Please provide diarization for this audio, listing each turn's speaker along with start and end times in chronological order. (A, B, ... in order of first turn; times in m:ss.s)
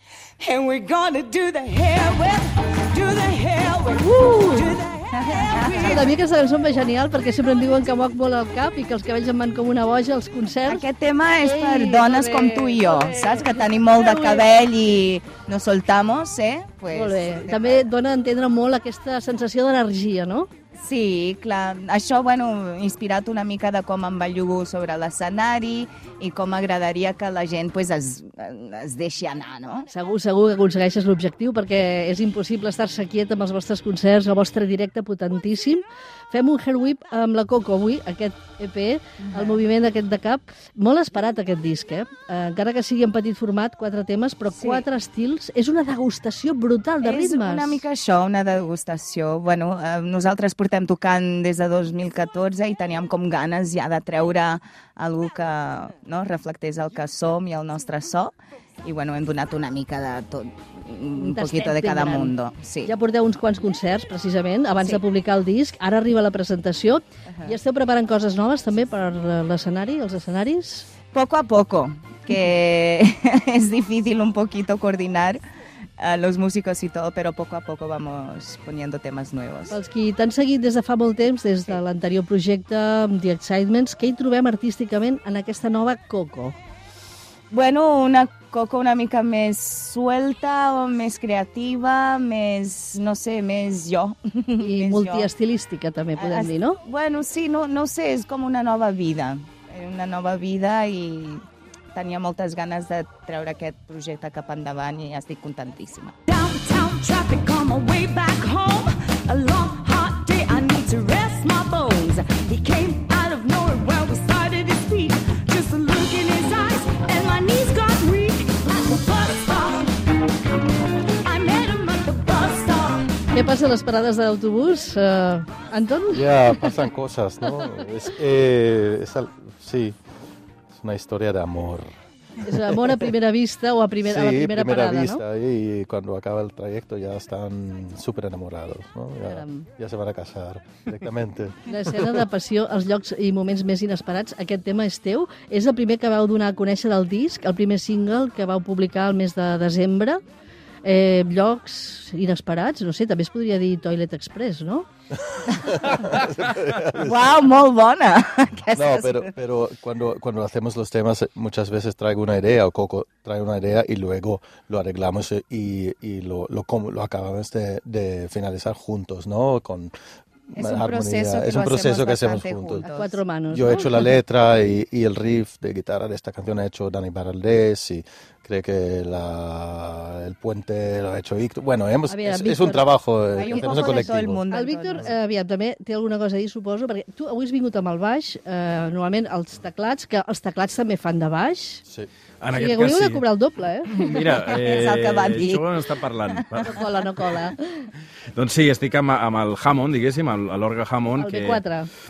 0:00.4-0:06.0 A
0:04.0-0:04.8 B
0:05.1-0:06.1 C
0:05.6-0:10.9 B
0:10.7-0:17.9 C
0:11.4-0:14.5 B
0:16.9-0:20.5 B
0:20.8-0:29.9 C
0:29.9-0:47.8 B
0:39.3-0:39.6 C
0:44.5-0:44.8 C
0:47.0-1:02.9 C
1:01.1-1:10.9 B
1:07.3-1:07.6 C
1:11.1-1:15.4 C
1:16.0-1:19.8 C
1:19.7-1:26.6 B
1:27.5-1:35.3 C
1:34.6-1:36.8 B
1:36.2-1:46.2 C
1:46.3-2:00.0 A
2:01.2-2:03.2 A
2:03.3-2:06.7 B
2:06.1-2:10.0 D
2:10.7-2:13.0 D
2:12.4-2:15.2 B
2:14.0-2:22.2 D
2:19.3-2:19.7 B
2:21.7-2:30.2 B
2:30.8-2:34.9 B
2:35.2-2:37.4 D
2:37.0-2:39.3 C
2:38.7-2:50.0 D
2:50.5-2:52.9 D
2:50.6-2:53.2 C
2:52.8-2:54.1 B
2:53.5-3:04.4 D
3:02.1-3:11.8 B
3:03.4-3:05.1 C
3:12.4-3:13.2 E
3:12.5-3:14.1 B
3:13.9-3:16.8 E
3:14.0-3:16.9 C
3:16.6-3:17.9 B
3:18.3-3:21.6 E
3:21.2-3:21.9 B